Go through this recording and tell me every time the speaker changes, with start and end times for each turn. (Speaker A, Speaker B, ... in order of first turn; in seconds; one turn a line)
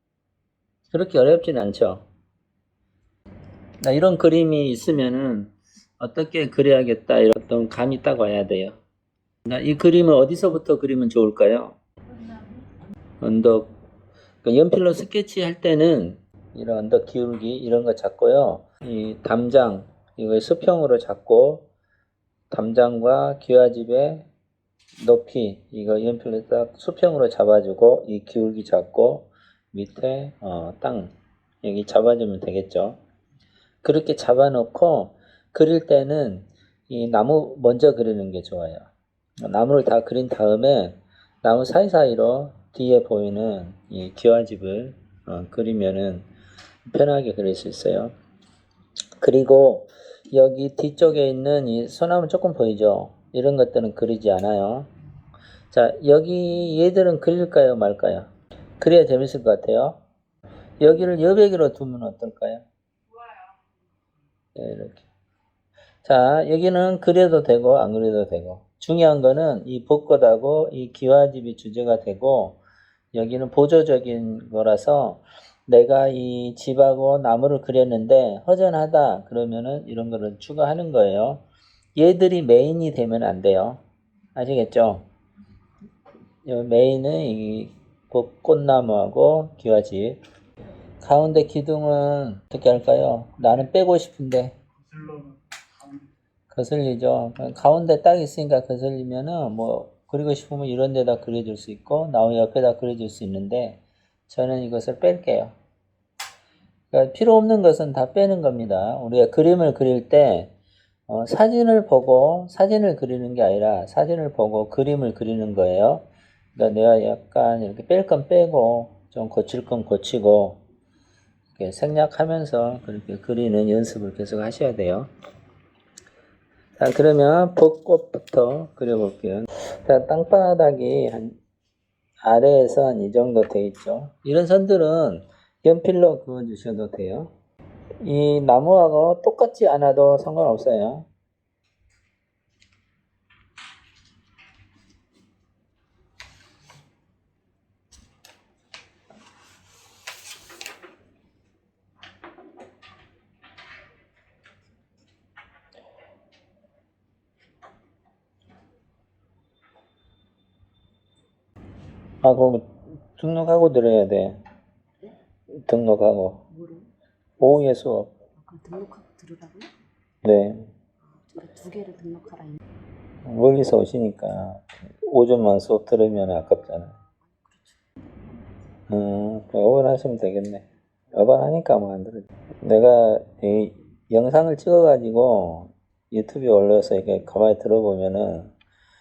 Speaker A: 0.9-2.0
Speaker A: 3.8-8.8
Speaker A: 9.4-11.8
Speaker A: 13.2-13.7
Speaker A: 14.4-21.6
Speaker A: 22.5-24.3
Speaker A: 25.0-33.0
Speaker A: 33.8-38.9
Speaker A: 39.4-46.3
Speaker A: 46.9-48.1
Speaker A: 49.2-54.9
Speaker A: 55.7-60.0
Speaker A: 60.8-62.6
Speaker A: 64.5-65.0
Speaker A: 66.0-72.6
Speaker A: 73.1-81.4
Speaker A: 81.9-83.8
Speaker A: 84.3-85.0
Speaker A: 86.4-90.2
Speaker A: 91.0-94.5
Speaker A: 96.5-105.5
Speaker A: 106.9-110.5
Speaker A: 111.1-120.6
Speaker A: 121.5-125.1
Speaker A: 126.8-131.4
Speaker A: 132.2-137.3
Speaker A: 138.0-141.1
Speaker A: 162.2-164.4
Speaker A: 165.5-166.4
Speaker B: 166.5-166.9
Speaker A: 167.4-168.1
Speaker B: 168.3-169.7
Speaker A: 170.2-170.7
Speaker B: 171.0-172.6
Speaker A: 173.2-176.9
Speaker B: 177.2-177.8
Speaker A: 178.9-188.5